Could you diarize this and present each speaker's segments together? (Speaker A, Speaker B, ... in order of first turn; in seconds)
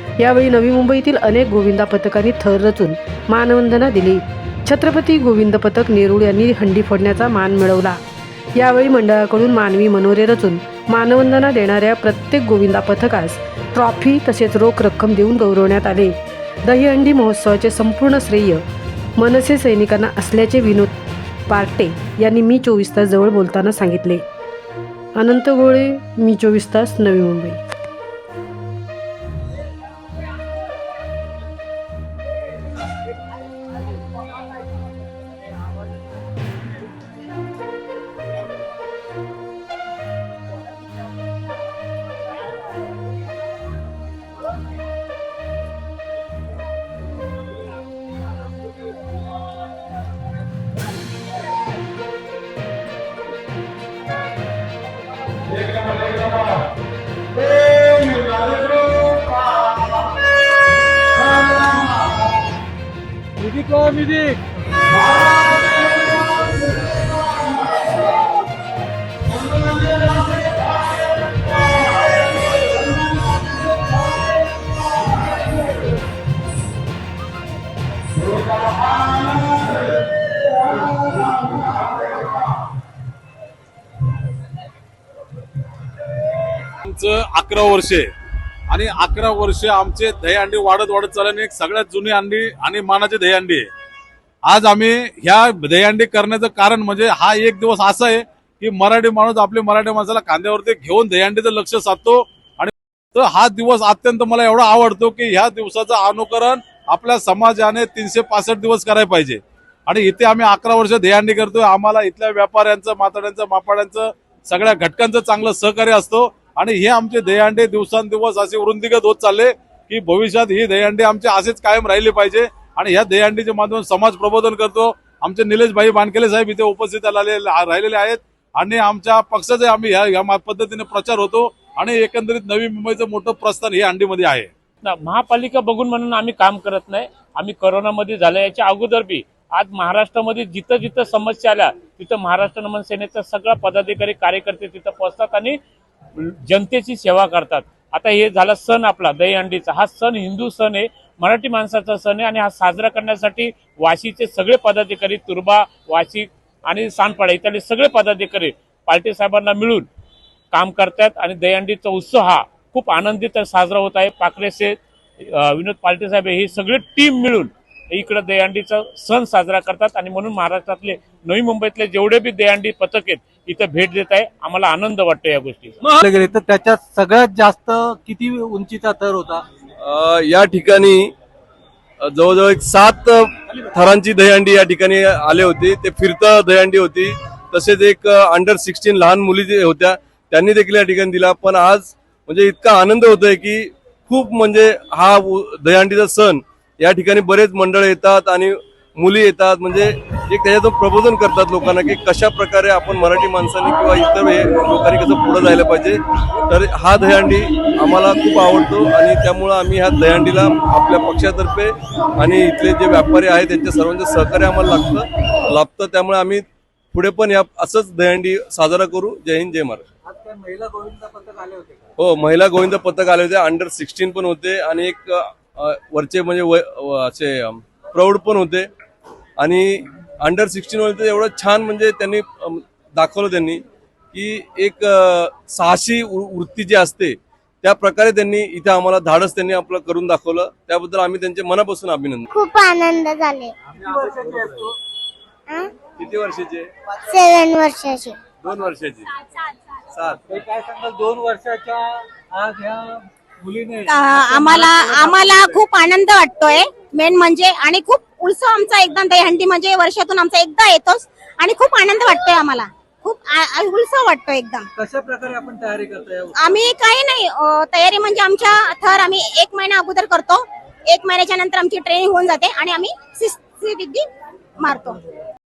Speaker A: 0.2-8.0, 8.6-18.6, 19.2-20.9, 21.5-24.2, 25.1-27.6
Speaker B: 55.9-56.5, 57.7-58.5, 86.8-88.1, 88.7-93.7, 94.4-134.5
Speaker C: 63.4-64.4, 175.8-179.4, 220.1-221.9, 243.7-244.7, 250.3-255.6, 264.8-266.4
Speaker D: 134.8-145.6, 146.2-159.9, 160.5-175.8
Speaker E: 179.8-181.1, 182.0-219.8, 222.0-228.7, 229.4-242.3, 245.9-246.7, 248.4-249.1, 249.9-250.2
Speaker F: 242.3-243.6, 247.1-248.3
Speaker G: 253.9-264.7, 266.4-274.1, 274.6-275.0